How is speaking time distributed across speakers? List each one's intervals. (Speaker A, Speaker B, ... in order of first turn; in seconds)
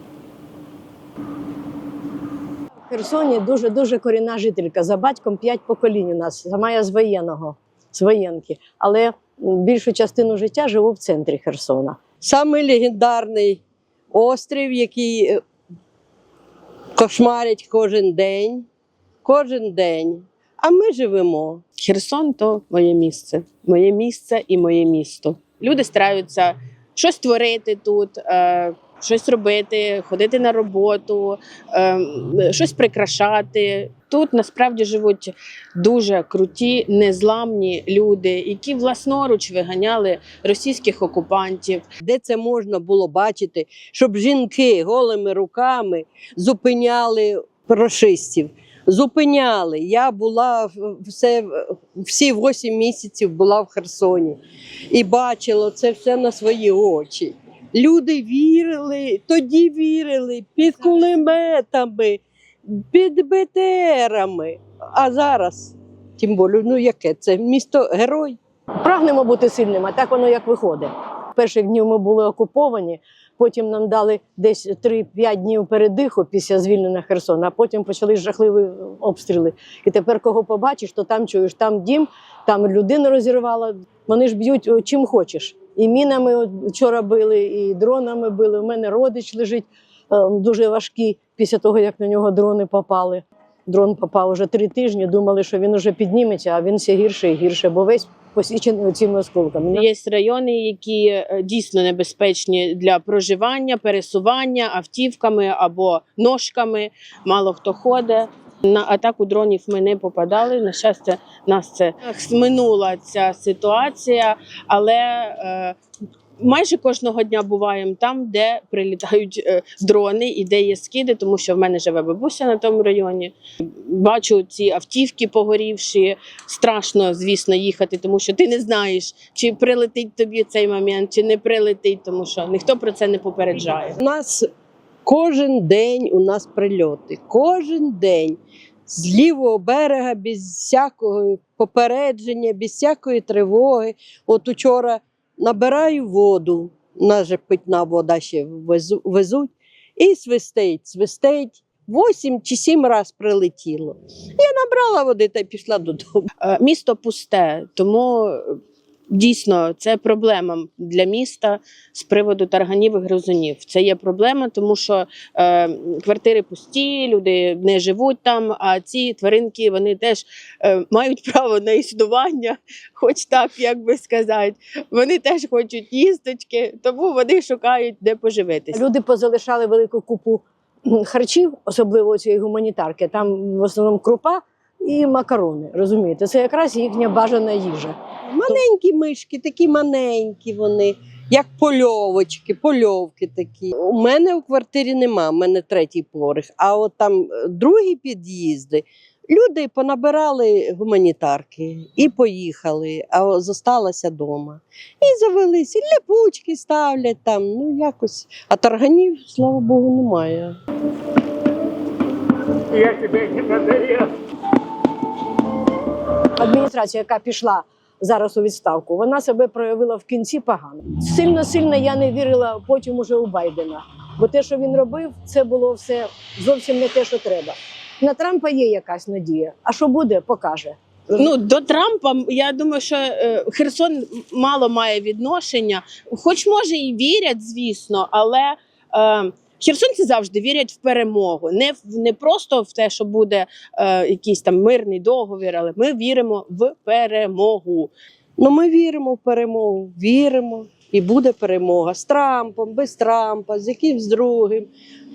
Speaker A: 2.9-12.0, 68.8-99.8, 178.7-188.0, 216.4-231.2
Speaker B: 12.2-13.6, 14.1-15.4, 17.0-18.7, 19.2-21.6, 42.0-54.4, 54.9-68.4, 134.0-134.5, 135.1-156.3, 188.2-210.6, 212.8-214.1, 248.4-254.7
Speaker C: 21.8-41.8, 99.7-115.8, 116.4-134.0, 156.4-158.6, 159.1-178.8, 231.2-247.9